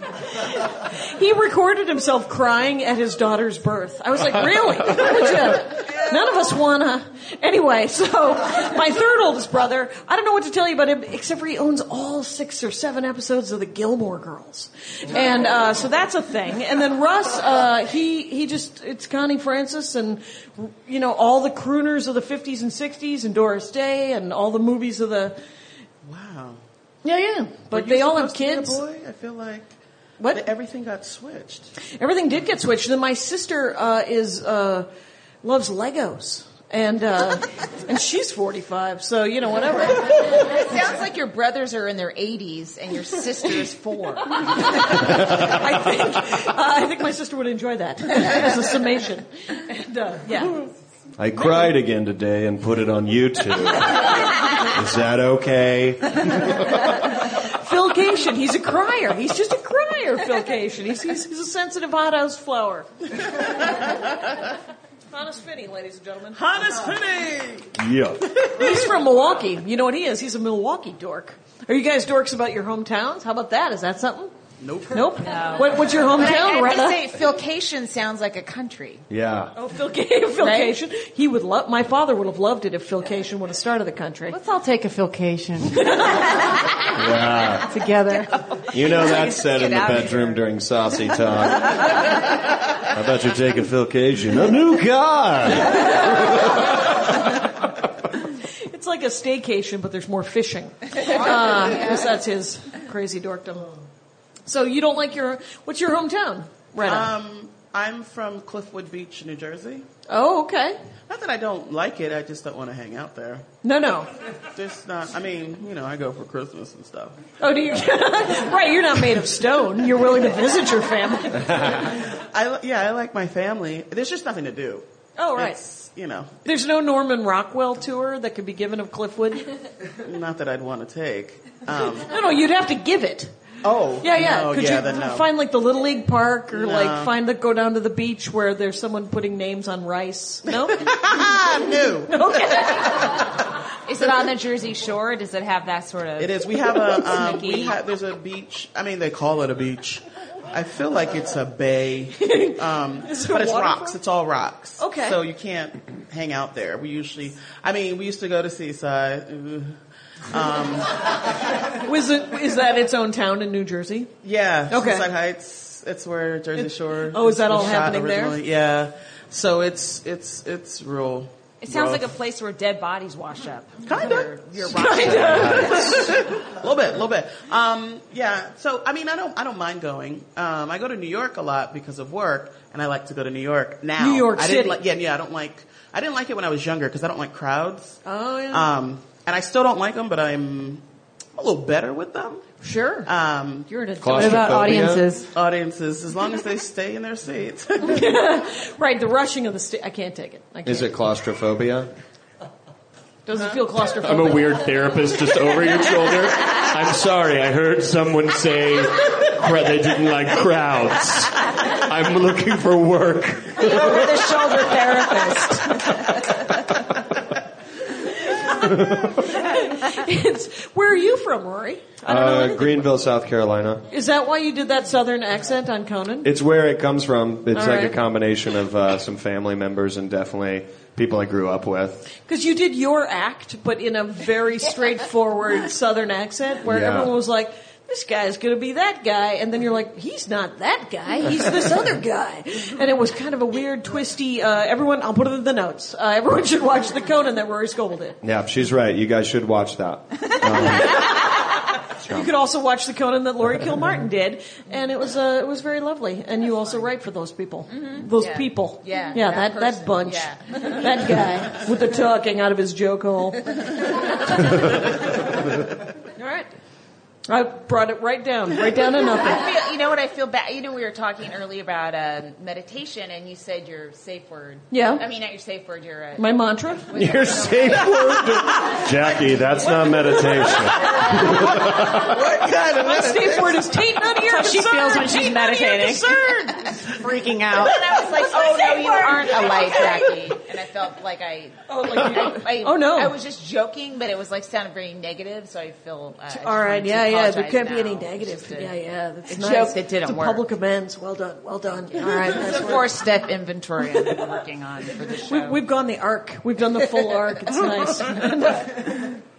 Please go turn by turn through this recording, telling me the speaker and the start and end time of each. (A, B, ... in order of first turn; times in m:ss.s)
0:00.3-0:25.4 A
0:26.0-0:26.6 B
0:27.0-0:28.8 A
0:27.7-0:29.7 B
0:30.2-0:30.5 A
0:30.3-0:31.7 B
0:32.0-0:34.9 A
0:35.4-0:40.3 A
0:40.3-0:44.4 C
0:44.7-0:50.5 A
0:50.3-0:50.6 C
0:51.2-0:57.0 D
0:57.3-1:03.8 A
1:05.1-1:06.4 A
1:06.3-1:07.7 B
1:07.8-1:08.3 D
1:08.5-1:14.3 A
1:14.6-1:15.1 B
1:14.9-1:17.0 A
1:15.2-1:19.0 C
1:19.1-1:19.5 D
1:19.6-1:24.4 A
1:20.4-1:20.8 C
1:24.3-1:26.3 E
1:26.9-1:27.7 D
1:27.7-1:28.5 E
1:28.1-1:30.3 C
1:28.7-1:32.2 D
1:32.8-1:37.4 D
1:38.6-1:43.7 A
1:44.5-1:47.1 A
1:46.8-1:49.9 B
1:50.1-1:50.8 A
1:51.1-1:53.4 B
1:53.6-1:54.1 A
1:54.6-1:57.2 B
1:57.4-2:01.8 A
2:01.7-2:04.8 B
2:05.2-2:05.6 A
2:05.4-2:06.4 B
2:06.4-2:09.5 A
2:10.0-2:12.1 B
2:12.0-2:13.3 A
2:13.6-2:15.3 B
2:14.0-2:20.9 A
2:16.5-2:17.1 B
2:20.7-2:22.6 B
2:22.1-2:23.2 A
2:23.9-2:27.8 C
2:26.2-2:39.8 B
2:32.2-2:34.0 A
2:34.8-2:35.2 A
2:40.3-2:41.0 B
2:41.8-2:44.1 A
2:44.2-2:51.3 B
2:44.7-2:45.1 A
2:46.6-2:48.4 A
2:51.6-2:56.0 C
2:53.8-3:10.8 B
2:54.6-2:56.3 A
2:55.2-2:55.7 D
3:04.0-3:04.8 A
3:08.0-3:08.7 A
3:11.4-3:12.5 B
3:12.6-3:13.1 A
3:13.0-3:13.7 B
3:13.7-3:14.6 A
3:14.0-3:15.1 D
3:14.0-3:15.3 E
3:15.3-3:18.1 B
3:17.8-3:20.9 A
3:20.6-3:21.9 D
3:23.3-3:24.6 A
3:24.0-3:35.0 D
3:33.6-3:36.3 C
3:36.5-3:37.2 D
3:38.3-3:42.9 A
3:38.5-3:39.3 D
3:42.1-3:43.8 D
3:43.9-3:46.3 A
3:46.2-3:52.1 D
3:47.6-3:48.0 A
3:52.3-4:08.2 A
3:56.7-3:57.1 D
4:08.2-4:11.1 D
4:12.0-4:12.3 D
4:12.1-4:23.7 A
4:17.7-4:20.9 C
4:26.2-4:26.5 A
4:27.3-4:29.5 A
4:29.1-4:36.4 C
4:34.7-4:35.0 A
4:36.2-4:36.9 A
4:36.9-4:38.4 C
4:36.9-4:42.4 D
4:40.7-4:41.1 C
4:42.0-4:43.7 B
4:42.6-4:46.8 A
4:44.1-4:47.8 E
4:47.5-4:58.7 C
4:48.2-4:50.1 A
4:51.7-4:53.2 A
4:56.3-5:03.0 A
4:59.3-5:00.4 C
5:02.0-5:05.6 C
5:05.3-5:09.2 A